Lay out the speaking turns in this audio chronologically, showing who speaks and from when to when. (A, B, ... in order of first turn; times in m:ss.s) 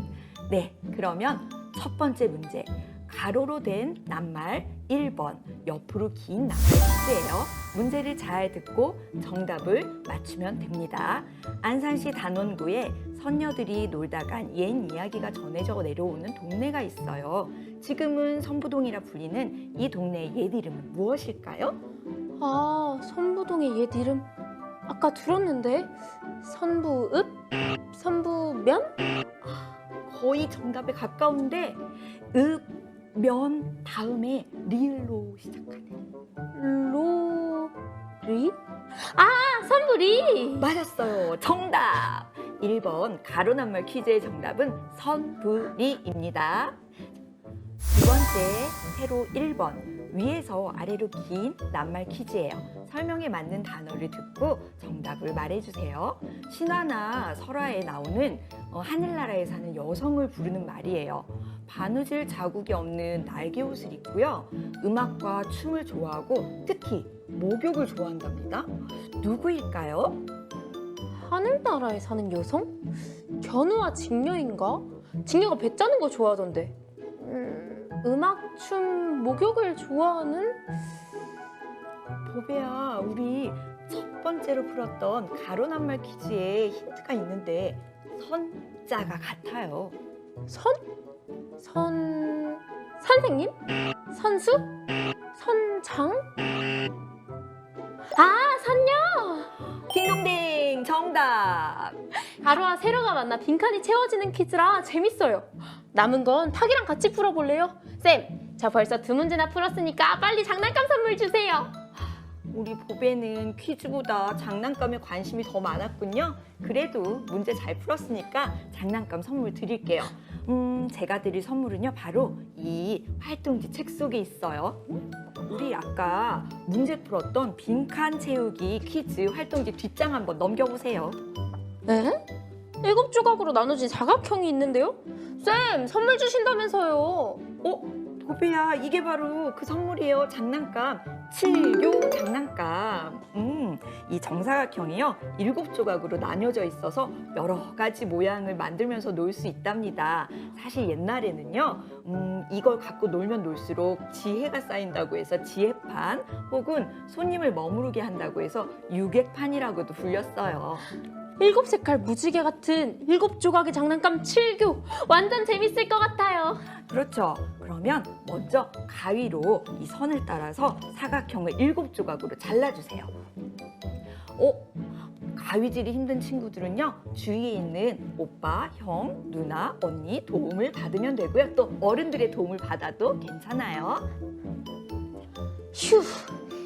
0:00.5-0:21.8 A
0:22.4-0:24.3 B
0:24.9-0:29.0 B
0:29.5-0:36.1 A
0:36.6-0:40.7 B
0:40.6-0:46.8 A
0:47.9-1:10.2 A
1:11.2-1:12.8 B
1:13.4-1:20.6 B
1:22.2-1:30.0 A
1:30.5-1:30.8 B
1:31.6-1:33.6 B
1:34.1-1:34.7 B
1:35.3-1:36.3 B
1:38.2-1:39.5 B
1:39.9-1:42.0 A
1:42.4-1:51.7 B
1:52.5-2:04.8 A
2:05.5-2:11.2 A
2:11.9-2:12.2 B
2:12.8-2:17.4 B
2:17.6-2:40.9 A
2:41.4-2:46.6 B
2:46.9-2:53.1 A
2:54.4-3:04.1 A
3:05.7-3:06.3 B